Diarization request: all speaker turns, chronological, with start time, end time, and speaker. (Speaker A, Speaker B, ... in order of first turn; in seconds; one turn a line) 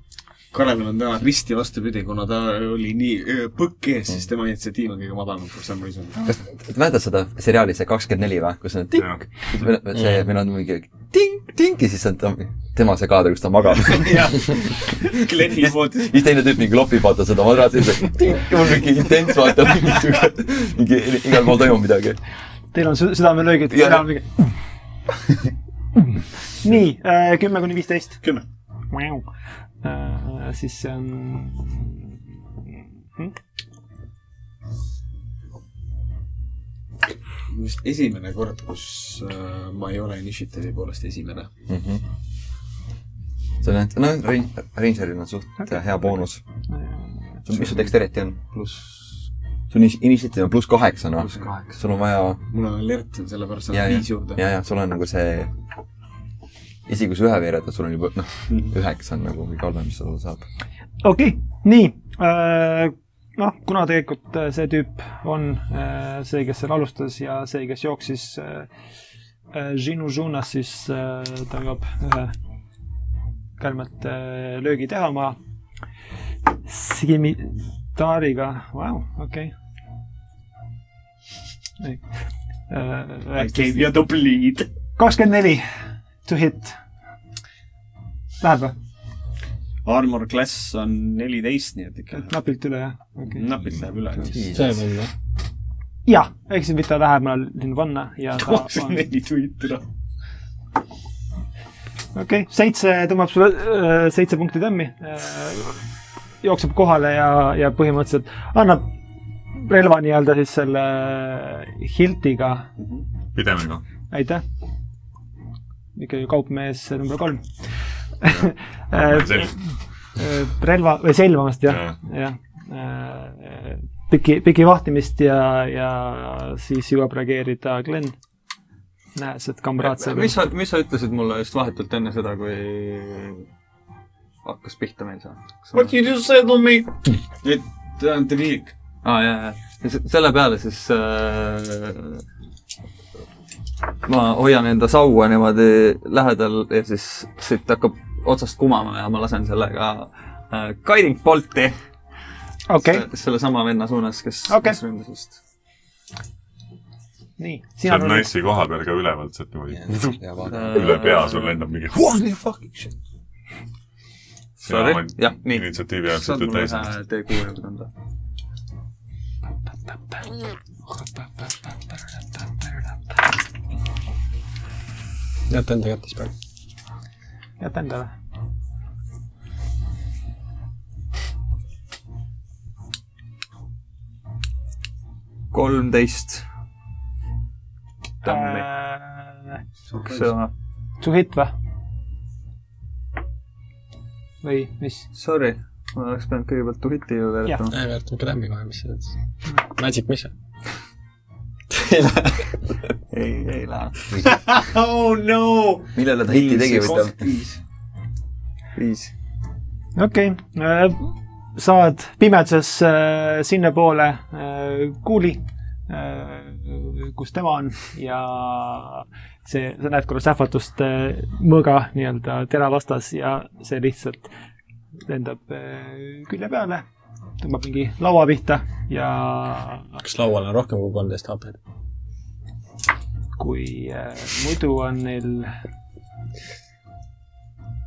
Speaker A: 0.5-6.4
Speaker B: 6.3-22.2
Speaker A: 13.8-16.1
Speaker C: 22.7-24.2
Speaker B: 23.7-24.1
Speaker C: 26.6-28.2
Speaker C: 28.9-29.2
Speaker C: 29.8-32.0
Speaker A: 37.5-41.5
Speaker B: 41.7-42.0
Speaker B: 43.6-46.4
Speaker B: 47.5-48.4
Speaker D: 48.5-49.0
Speaker B: 49.7-52.4
Speaker D: 51.2-51.8
Speaker A: 52.5-54.4
Speaker B: 53.7-55.5
Speaker B: 56.9-60.5
Speaker C: 61.0-68.7
Speaker C: 69.5-72.3
Speaker C: 73.6-75.4
Speaker C: 76.7-79.5
Speaker C: 82.7-84.0
Speaker A: 83.3-84.7
Speaker C: 85.0-85.7
Speaker C: 86.2-86.8
Speaker C: 88.4-88.8
Speaker A: 89.8-92.3
Speaker C: 92.1-93.4
Speaker A: 93.3-94.6
Speaker B: 94.3-94.6
Speaker E: 94.5-95.1
Speaker C: 96.1-99.0
Speaker A: 98.4-99.8
Speaker C: 102.2-105.8
Speaker C: 106.4-108.9
Speaker C: 109.5-112.7
Speaker F: 113.3-113.8
Speaker C: 114.1-114.4
Speaker C: 116.0-117.4
Speaker C: 118.2-119.6
Speaker F: 119.0-119.5
Speaker C: 120.2-128.2
Speaker F: 121.7-122.0
Speaker C: 129.2-130.4
Speaker D: 129.8-133.4
Speaker D: 134.4-136.0
Speaker A: 135.8-138.7
Speaker D: 139.0-142.2
Speaker D: 144.0-151.8
Speaker C: 152.7-153.1
Speaker D: 152.8-155.4
Speaker C: 154.5-154.8
Speaker C: 157.4-158.3
Speaker F: 157.8-162.1
Speaker B: 159.8-160.7
Speaker D: 160.5-161.6
Speaker D: 164.6-167.9
Speaker F: 164.7-166.9
Speaker E: 175.5-176.3
Speaker C: 177.6-178.1
Speaker D: 185.5-186.4
Speaker D: 188.2-188.7
Speaker C: 188.2-189.5
Speaker D: 189.9-190.5
Speaker C: 191.0-191.5
Speaker C: 194.4-195.1
Speaker D: 195.1-197.7
Speaker E: 197.7-199.1
Speaker E: 199.7-200.3
Speaker E: 201.7-202.6
Speaker D: 203.1-204.0
Speaker A: 204.2-207.6
Speaker B: 205.9-207.2
Speaker D: 208.8-209.1
Speaker C: 210.0-224.3
Speaker C: 225.1-226.8
Speaker C: 227.4-230.0
Speaker E: 230.0-231.6
Speaker C: 233.4-235.5